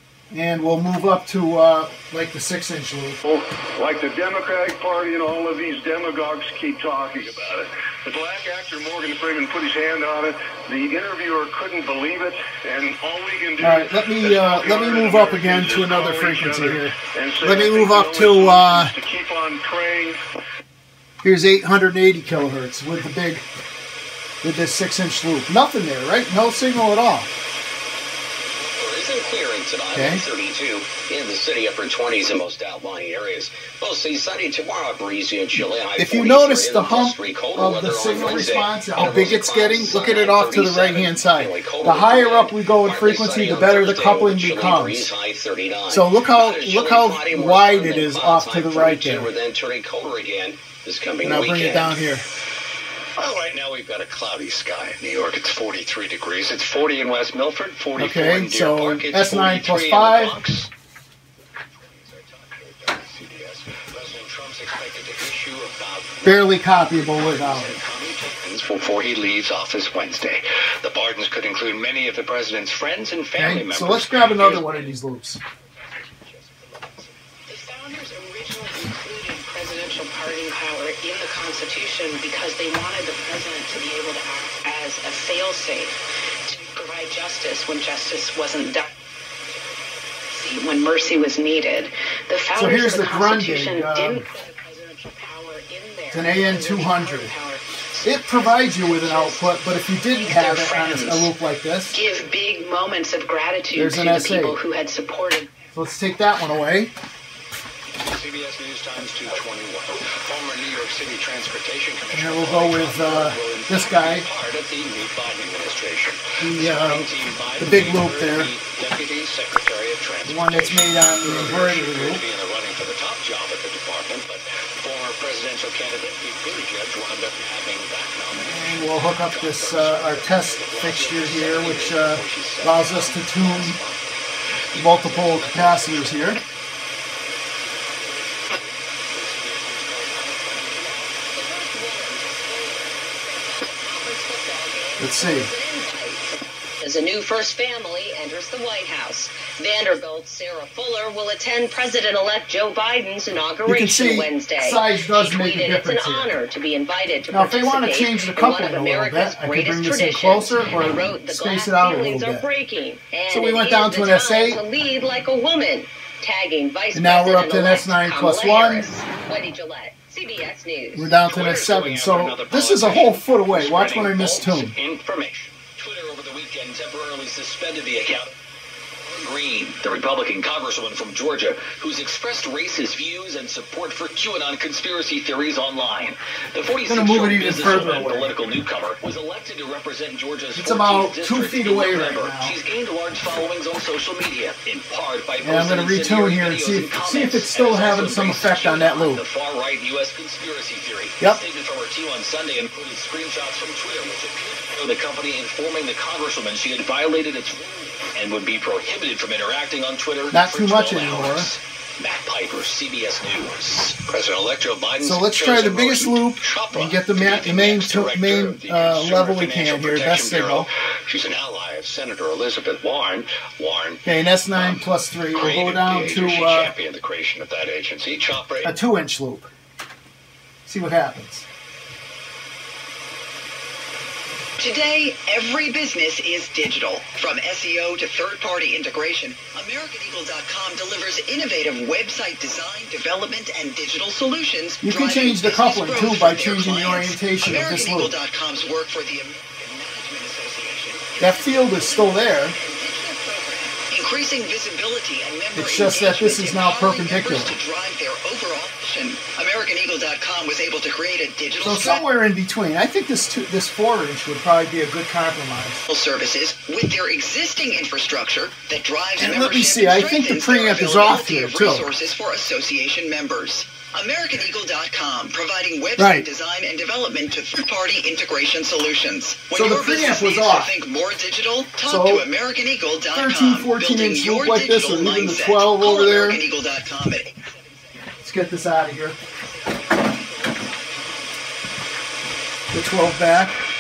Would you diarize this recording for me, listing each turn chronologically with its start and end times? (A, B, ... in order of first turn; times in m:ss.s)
0:00.3-0:03.2 A
0:03.2-0:20.2 B
0:13.6-0:18.9 A
0:21.2-0:23.4 A
0:24.4-0:27.3 A
0:28.6-0:33.4 C
0:29.9-0:30.2 A
0:31.1-0:33.3 D
0:33.8-0:38.6 D
0:36.0-0:45.1 A
0:37.7-0:40.9 C
0:39.4-0:39.7 D
0:40.9-0:51.9 D
0:45.9-0:49.3 A
0:51.2-0:52.2 A
0:53.2-1:00.7 C
0:58.0-1:00.4 A
1:01.8-1:15.0 C
1:06.2-1:07.8 A
1:13.4-1:15.4 A
1:15.9-1:17.2 C
1:17.5-1:26.0 E
1:26.5-1:28.9 E
1:29.6-1:41.4 E
1:32.6-1:34.3 A
1:36.1-1:37.3 A
1:38.0-1:42.0 A
1:41.9-1:45.5 E
1:43.7-1:44.6 A
1:45.7-1:46.9 A
1:48.0-2:14.1 C
1:52.1-1:54.3 A
1:56.4-1:58.5 A
2:00.2-2:02.2 A
2:08.4-2:13.8 A
2:14.7-2:16.5 C
2:14.8-2:16.4 A
2:17.6-2:21.3 C
2:21.3-2:51.2 F
2:25.0-2:25.5 A
2:33.6-2:36.4 A
2:37.3-2:42.5 A
2:43.3-2:44.6 A
2:46.9-2:49.0 A
2:50.9-2:54.8 A
2:51.3-2:58.4 C
2:59.1-3:44.0 C
3:06.9-3:08.4 A
3:10.5-3:12.6 A
3:15.4-3:19.2 A
3:30.3-3:31.5 A
3:35.0-3:40.7 A
3:44.0-3:46.7 A
3:44.5-3:44.8 C
3:45.3-3:48.7 C
3:48.6-3:49.5 A
3:50.7-3:51.5 A
3:54.6-4:22.0 G
4:04.8-4:08.1 A
4:11.2-4:12.6 A
4:15.6-4:17.6 A
4:21.6-4:25.8 A
4:25.9-4:47.5 G
4:29.2-4:31.9 A
4:36.0-4:36.3 A
4:39.5-4:40.7 A
4:41.8-4:42.3 A
4:43.1-4:46.4 A
4:48.2-4:49.2 A
4:49.3-4:51.3 E
4:52.7-4:53.6 A